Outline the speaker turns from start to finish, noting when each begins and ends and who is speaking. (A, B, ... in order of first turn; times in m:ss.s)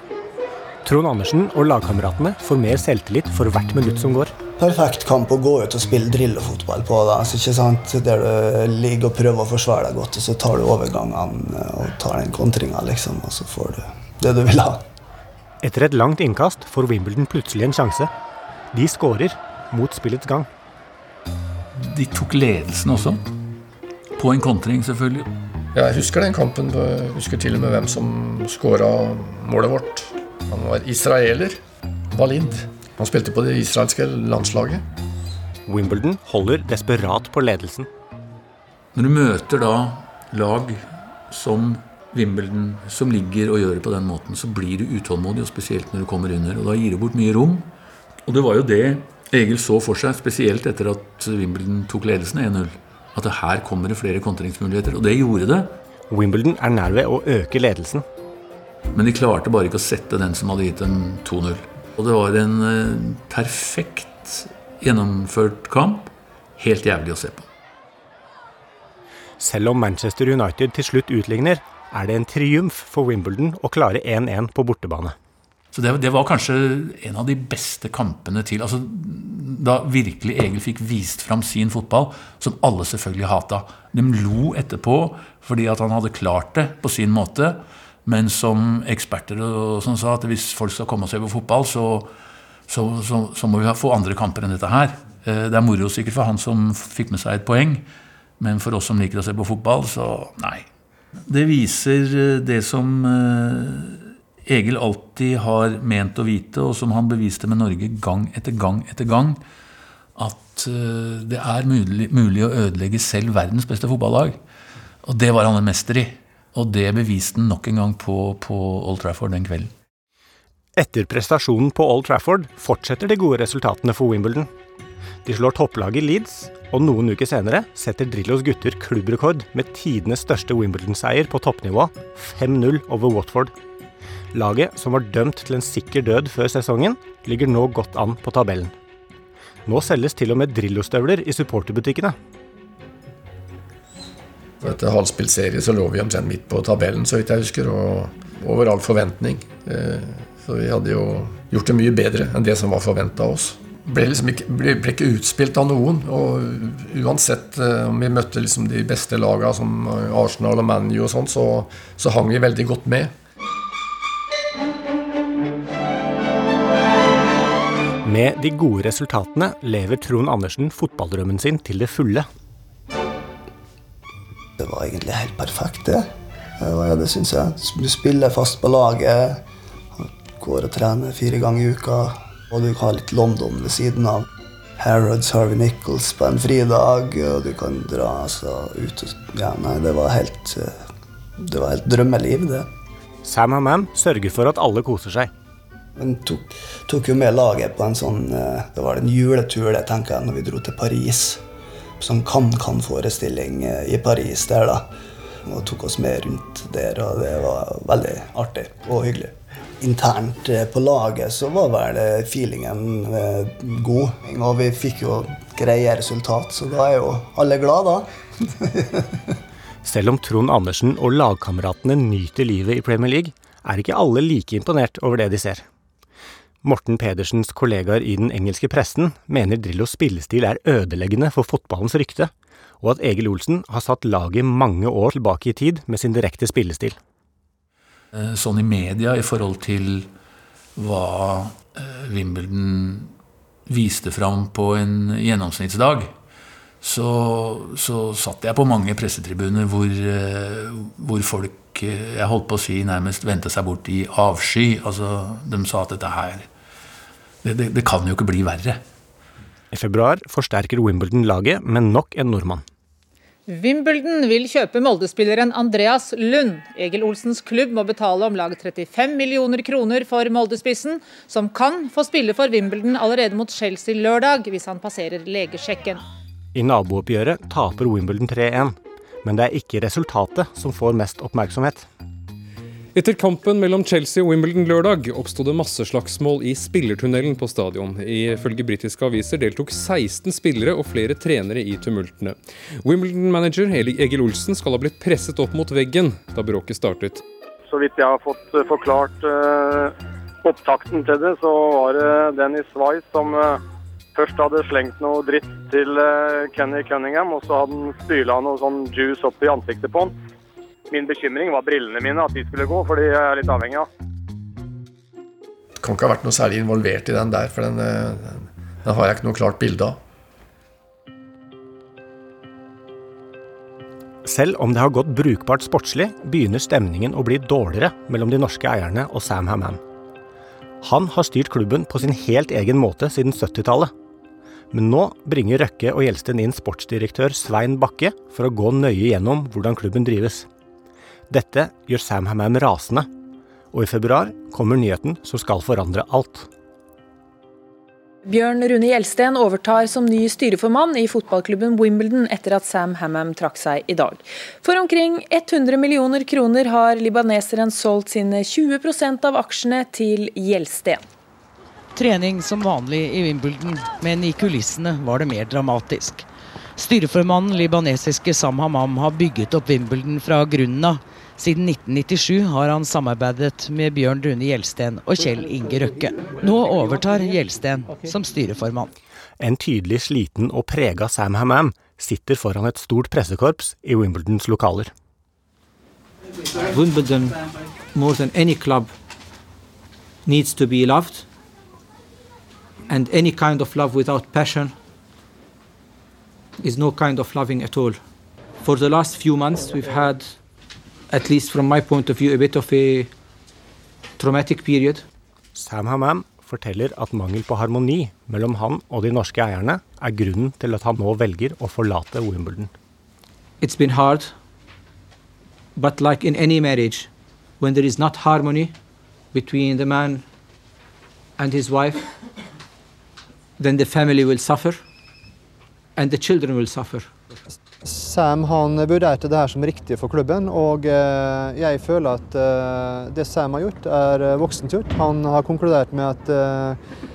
0:00.8-0:04.3 A
0:04.6-0:14.8 B
0:15.6-0:18.1 A
0:18.7-0:20.5 A
0:21.7-0:23.2 C
0:24.2-0:25.3 C
0:25.7-0:31.6 D
0:32.1-0:34.8 D
0:35.7-0:37.9 A
0:38.9-0:47.7 C
0:48.2-0:55.8 C
0:56.1-0:58.0 A
0:58.9-1:07.5 C
1:09.4-1:15.1 A
1:15.7-1:32.1 C
1:32.7-1:37.8 C
1:38.4-1:40.6 C
1:41.2-1:49.4 C
1:50.2-1:54.4 C
1:55.0-1:59.7 C
2:00.8-2:04.5 A
2:05.2-2:13.5 A
2:14.3-2:18.7 A
2:19.6-2:22.2 A
2:24.6-2:43.1 D
2:48.0-2:52.2 A
2:54.6-2:56.1 B
2:56.6-2:59.4 B
3:00.0-3:04.3 B
3:04.8-3:10.8 B
3:11.4-3:12.7 B
3:13.2-3:15.3 A
3:16.0-3:21.4 B
3:22.0-3:24.9 B
3:25.4-3:39.3 B
3:39.8-3:45.6 A
3:46.6-3:52.3 A
3:52.8-3:57.0 A
3:58.1-4:00.1 C
4:00.8-4:03.1 C
4:03.7-4:06.1 C
4:06.8-4:16.5 C
4:17.4-4:18.8 C
4:19.7-4:22.6 A
4:23.5-4:36.0 E
4:36.5-4:41.9 A
4:42.9-4:57.2 F
4:57.7-5:03.6 G
5:04.1-5:10.1 G
5:10.9-5:13.9 G
5:15.8-5:20.0 D
5:24.2-5:29.8 A
5:30.8-5:33.9 A
5:34.7-5:40.5 A
5:41.3-5:43.1 A
5:43.7-5:46.5 A
5:48.2-6:01.0 H
6:01.9-6:06.2 I
6:06.8-6:18.9 I
6:19.4-6:24.9 A
6:26.6-6:27.4 J
6:27.9-6:28.9 J
6:30.2-6:31.2 J
6:32.9-6:34.7 J
6:36.6-6:38.0 J
6:38.6-6:40.3 J
6:41.1-6:43.1 J
6:44.2-6:45.0 J
6:45.5-6:52.7 A
6:53.6-6:54.3 J
6:55.7-6:58.7 J
6:59.3-7:00.2 J
7:01.4-7:02.0 J
7:03.6-7:04.8 J
7:06.0-7:07.4 J
7:07.8-7:16.8 K